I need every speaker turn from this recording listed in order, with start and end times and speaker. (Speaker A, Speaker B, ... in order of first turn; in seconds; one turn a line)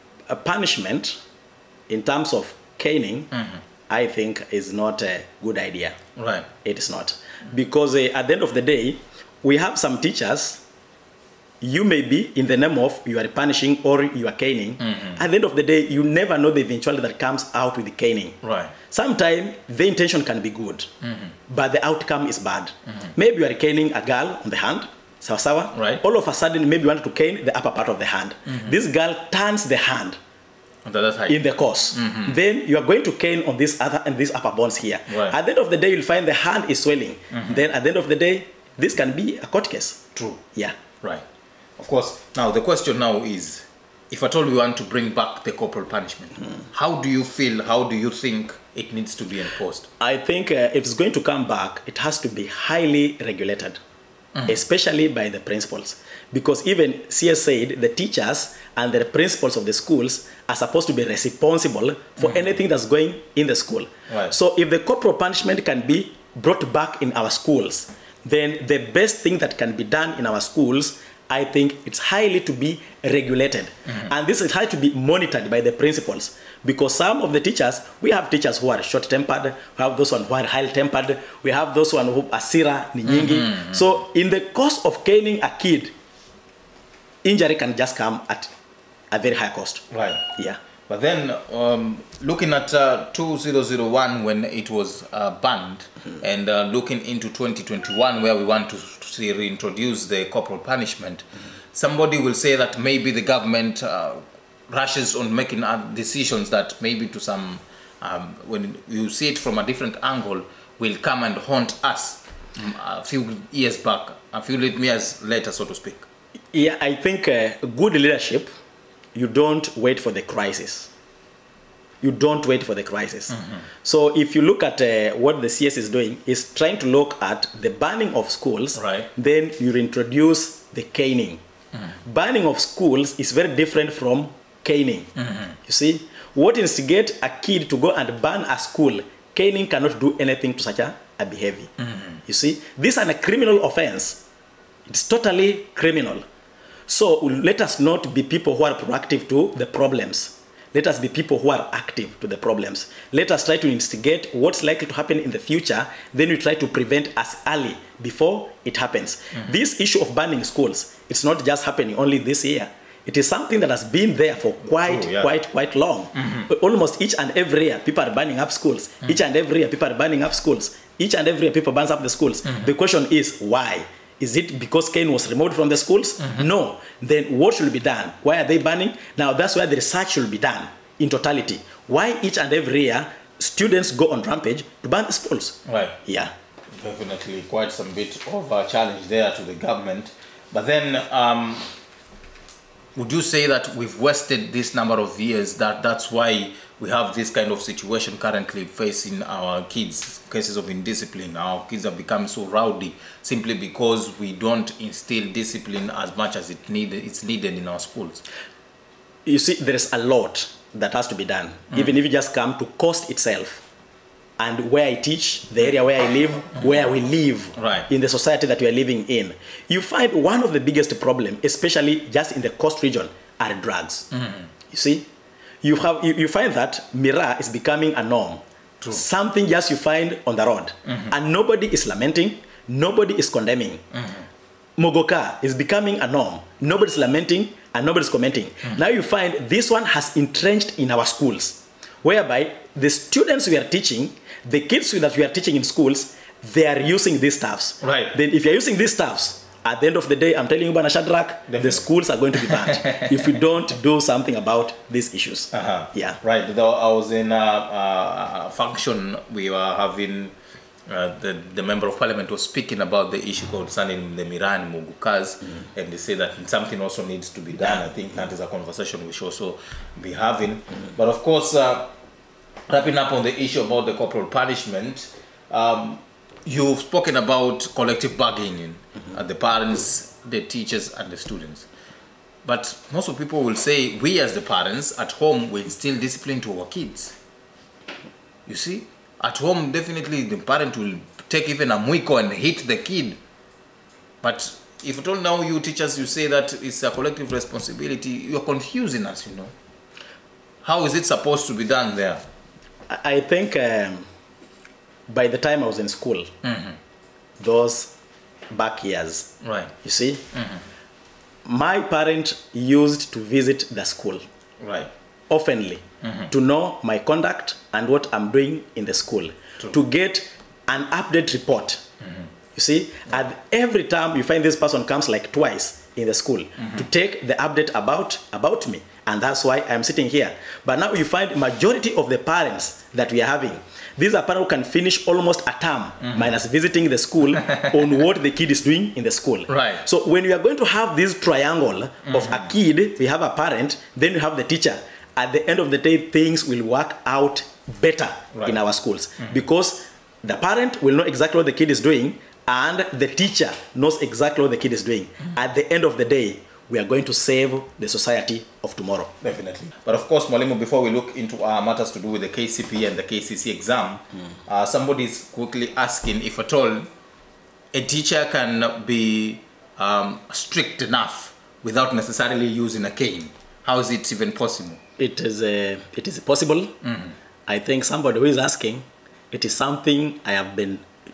Speaker A: 0.3-1.2
Speaker A: 1.9-3.3
Speaker B: 3.3-3.6
Speaker A: 3.9-6.0
Speaker B: 6.2-6.5
Speaker A: 6.6-10.6
Speaker A: 11.6-18.4
Speaker B: 14.8-15.2
Speaker B: 18.4-18.7
Speaker A: 18.9-20.9
Speaker B: 21.0-21.4
Speaker A: 21.5-30.2
Speaker B: 25.7-26.0
Speaker B: 28.5-28.8
Speaker B: 30.9-31.4
Speaker A: 31.3-40.0
Speaker B: 31.9-32.4
Speaker B: 35.1-35.4
Speaker B: 37.3-37.6
Speaker B: 40.1-40.4
Speaker B: 41.8-49.9
Speaker A: 50.0-53.8
Speaker A: 54.5-85.9
Speaker B: 62.2-62.5
Speaker B: 64.1-64.3
Speaker B: 83.1-83.8
Speaker A: 87.2-88.5
Speaker A: 89.1-89.8
Speaker B: 89.9-90.2
Speaker B: 90.9-116.1
Speaker A: 116.5-118.5
Speaker A: 119.2-120.9
Speaker A: 122.0-131.4
Speaker B: 123.3-123.7
Speaker B: 128.8-129.1
Speaker A: 132.0-135.1
Speaker B: 135.2-135.6
Speaker A: 135.7-141.7
Speaker B: 141.8-142.2
Speaker A: 142.3-144.2
Speaker A: 144.9-146.2
Speaker A: 146.9-186.3
Speaker B: 164.7-165.3
Speaker B: 166.2-166.5
Speaker B: 176.2-176.5
Speaker B: 185.7-186.0
Speaker B: 186.8-191.7
Speaker B: 193.0-208.2
Speaker A: 209.2-213.6
Speaker A: 214.4-224.1
Speaker B: 217.6-217.9
Speaker B: 224.1-224.5
Speaker A: 224.7-225.1
Speaker A: 225.6-233.8
Speaker B: 230.9-231.1
Speaker B: 233.9-234.3
Speaker A: 234.8-256.2
Speaker B: 247.8-248.2
Speaker B: 251.5-251.8
Speaker B: 252.4-253.4
Speaker B: 255.5-260.3
Speaker B: 260.9-271.9
Speaker B: 272.7-281.7
Speaker B: 282.4-287.1
Speaker B: 288.5-293.2
Speaker B: 294.2-299.5
Speaker B: 300.6-302.2
Speaker A: 302.9-304.1
Speaker A: 305.1-306.3
Speaker B: 306.4-306.8
Speaker A: 307.4-307.9
Speaker A: 308.5-309.3
Speaker B: 309.4-309.7
Speaker A: 309.8-310.2
Speaker B: 310.3-310.6
Speaker A: 311.4-314.2
Speaker B: 314.6-314.9
Speaker A: 315.3-321.8
Speaker B: 316.0-316.3
Speaker A: 322.6-359.1
Speaker B: 326.6-326.8
Speaker B: 336.0-336.3
Speaker B: 337.4-337.7
Speaker B: 339.5-339.8
Speaker B: 342.1-342.5
Speaker B: 359.2-366.9
Speaker B: 367.7-374.8
Speaker A: 375.0-376.8
Speaker B: 376.8-377.1
Speaker A: 377.5-380.9